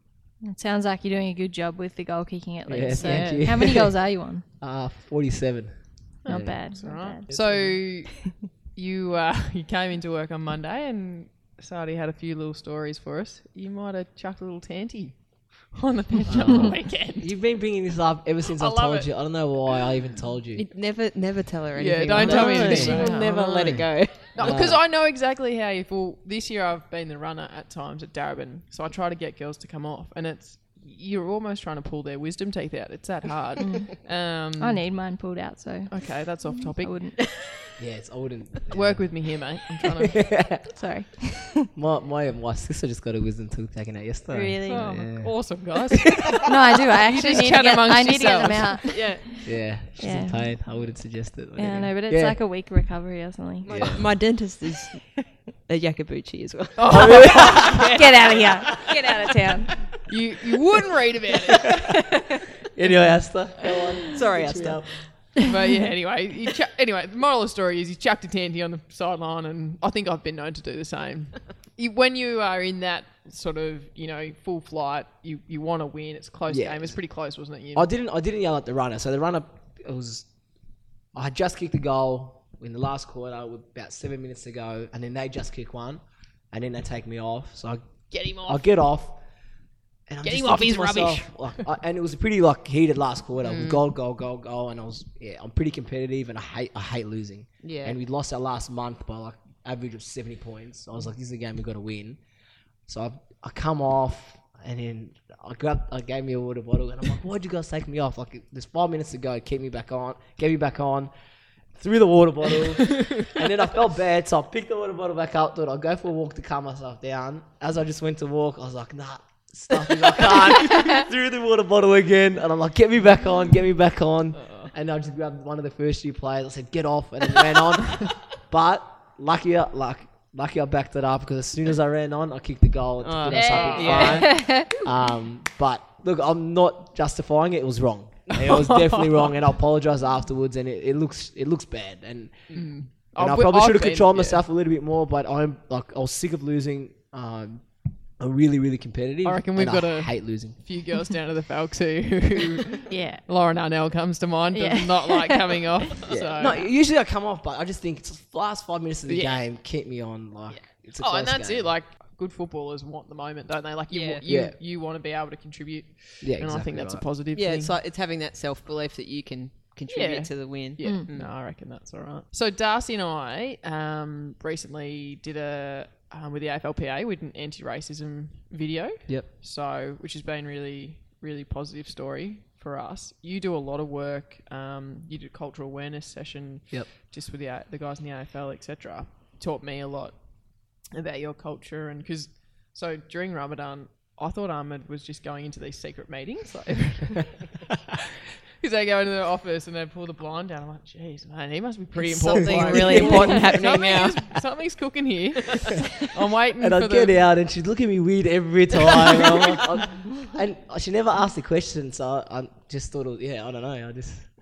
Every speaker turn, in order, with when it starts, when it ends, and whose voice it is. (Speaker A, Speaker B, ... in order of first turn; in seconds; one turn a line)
Speaker A: 0.4-4.4
Speaker B: 2.7-7.8
Speaker C: 3.0-3.5
Speaker D: 6.2-17.3
Speaker A: 6.3-7.3
Speaker B: 16.3-20.7
Speaker D: 18.4-19.9
Speaker C: 20.6-24.6
Speaker D: 21.8-23.4
Speaker B: 22.1-24.9
Speaker D: 24.0-34.9
Speaker A: 33.6-33.9
Speaker A: 34.6-37.4
Speaker D: 35.9-37.2
Speaker B: 37.8-39.3
Speaker D: 38.7-40.2
Speaker B: 40.0-40.8
Speaker A: 40.7-41.7
Speaker B: 41.7-46.5
Speaker A: 44.3-44.9
Speaker D: 44.7-46.4
Speaker A: 46.4-50.6
Speaker D: 47.0-49.1
Speaker C: 48.9-49.3
Speaker B: 49.4-52.4
Speaker A: 51.5-53.7
Speaker C: 53.6-57.9
Speaker B: 53.7-54.2
Speaker D: 56.8-58.1
Speaker B: 56.9-58.0
Speaker A: 57.9-59.7
Speaker D: 60.1-61.7
Speaker B: 62.7-65.1
Speaker C: 63.6-64.8
Speaker D: 65.4-77.9
Speaker B: 76.5-80.3
Speaker B: 81.1-89.2
Speaker D: 88.1-88.7
Speaker B: 90.1-102.2
Speaker D: 90.2-91.7
Speaker C: 93.4-93.8
Speaker C: 97.6-98.0
Speaker B: 102.9-111.1
Speaker B: 111.7-150.6
Speaker D: 124.4-124.7
Speaker C: 133.0-134.6
Speaker D: 133.3-134.4
Speaker A: 133.9-134.7
Speaker D: 138.5-139.3
Speaker D: 142.5-144.4
Speaker D: 149.2-156.6
Speaker A: 152.9-153.2
Speaker A: 154.5-155.6
Speaker B: 156.1-161.8
Speaker D: 159.1-159.5
Speaker D: 160.5-167.8
Speaker C: 163.9-164.2
Speaker B: 164.3-164.6
Speaker B: 166.2-167.1
Speaker C: 167.3-171.4
Speaker D: 169.9-197.6
Speaker A: 170.8-171.1
Speaker B: 179.1-179.3
Speaker D: 198.6-207.2
Speaker C: 201.9-204.4
Speaker B: 202.3-203.7
Speaker B: 206.6-214.3